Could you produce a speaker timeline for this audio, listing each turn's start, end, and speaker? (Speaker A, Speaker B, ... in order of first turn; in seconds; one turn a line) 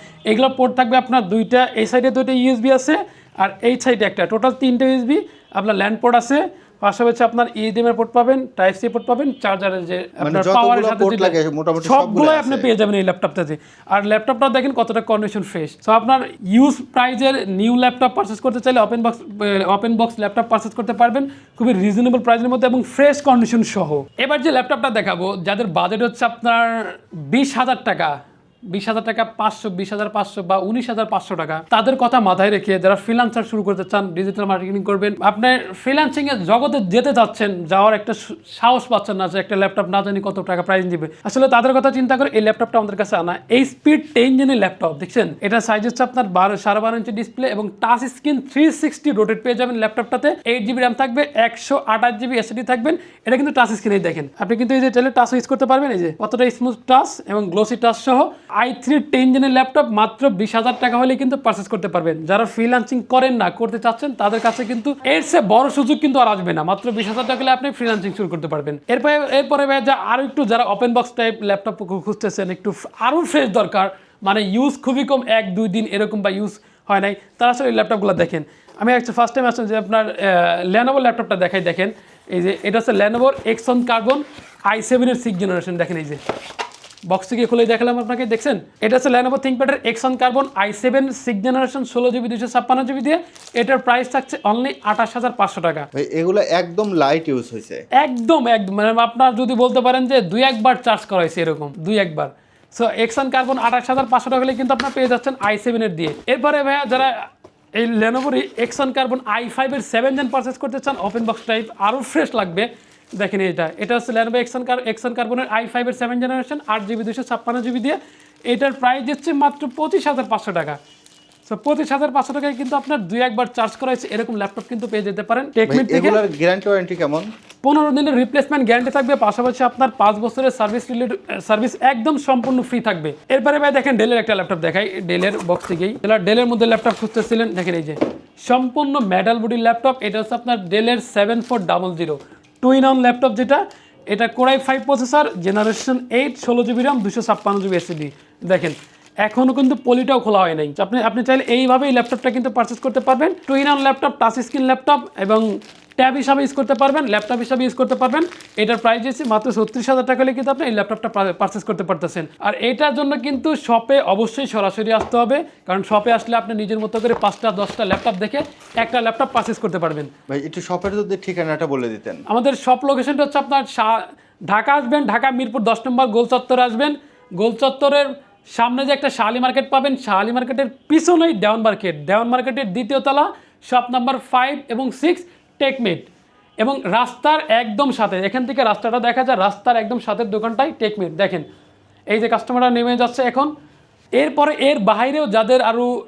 Speaker A: 0.3-28.2
Speaker B: 10.2-12.7
Speaker A: 28.7-86.2
Speaker A: 87.1-95.9
Speaker B: 96.0-97.8
Speaker A: 98.0-120.8
Speaker A: 121.5-126.2
Speaker B: 125.7-127.3
Speaker A: 127.6-170.1
Speaker B: 170.3-172.2
Speaker A: 172.3-186.1
Speaker A: 186.6-191.5
Speaker A: 192.1-193.5
Speaker A: 194.2-195.9